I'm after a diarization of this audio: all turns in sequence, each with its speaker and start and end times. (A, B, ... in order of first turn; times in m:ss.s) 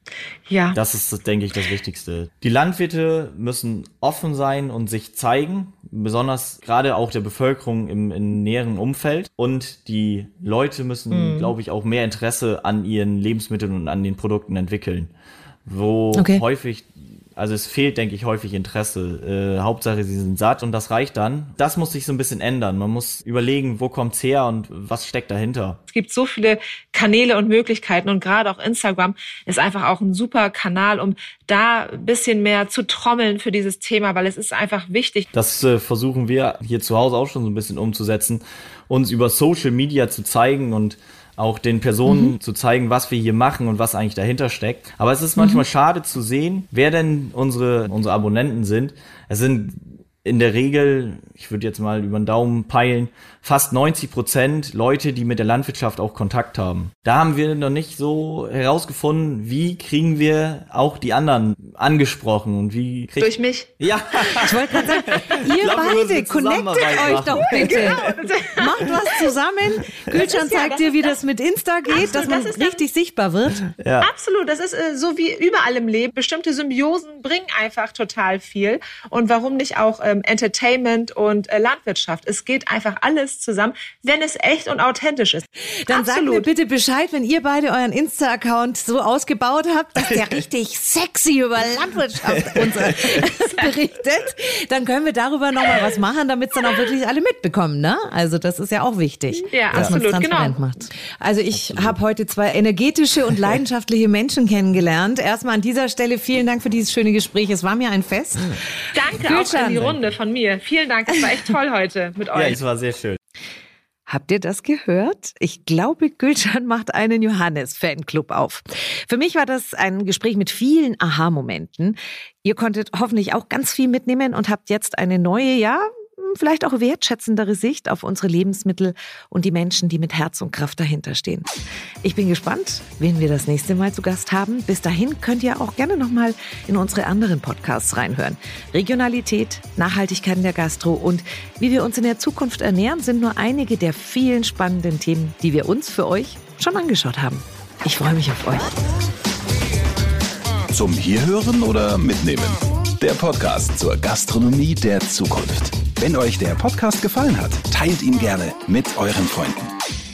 0:00.5-0:00.8 A
0:00.7-0:15.1 B
0:11.1-0:11.5 A
0:15.7-0:25.8 B
0:16.1-0:16.4 C
0:25.9-0:35.3 A
0:35.3-1:08.2 B
0:42.1-0:42.3 C
1:03.2-1:05.1 A
1:04.4-1:13.6 C
1:07.5-1:09.3 A
1:10.1-1:11.2 A
1:11.9-1:12.8 A
1:13.7-1:14.1 B
1:14.0-1:26.5 A
1:25.8-1:48.6 C
1:32.3-1:33.2 B
1:39.5-1:40.6 A
1:39.7-1:40.0 B
1:41.6-1:42.0 B
1:48.9-1:52.6 A
1:49.2-1:49.9 C
1:52.3-1:53.2 B
1:54.1-2:11.5 C
2:12.0-2:28.8 C
2:30.7-2:39.7 D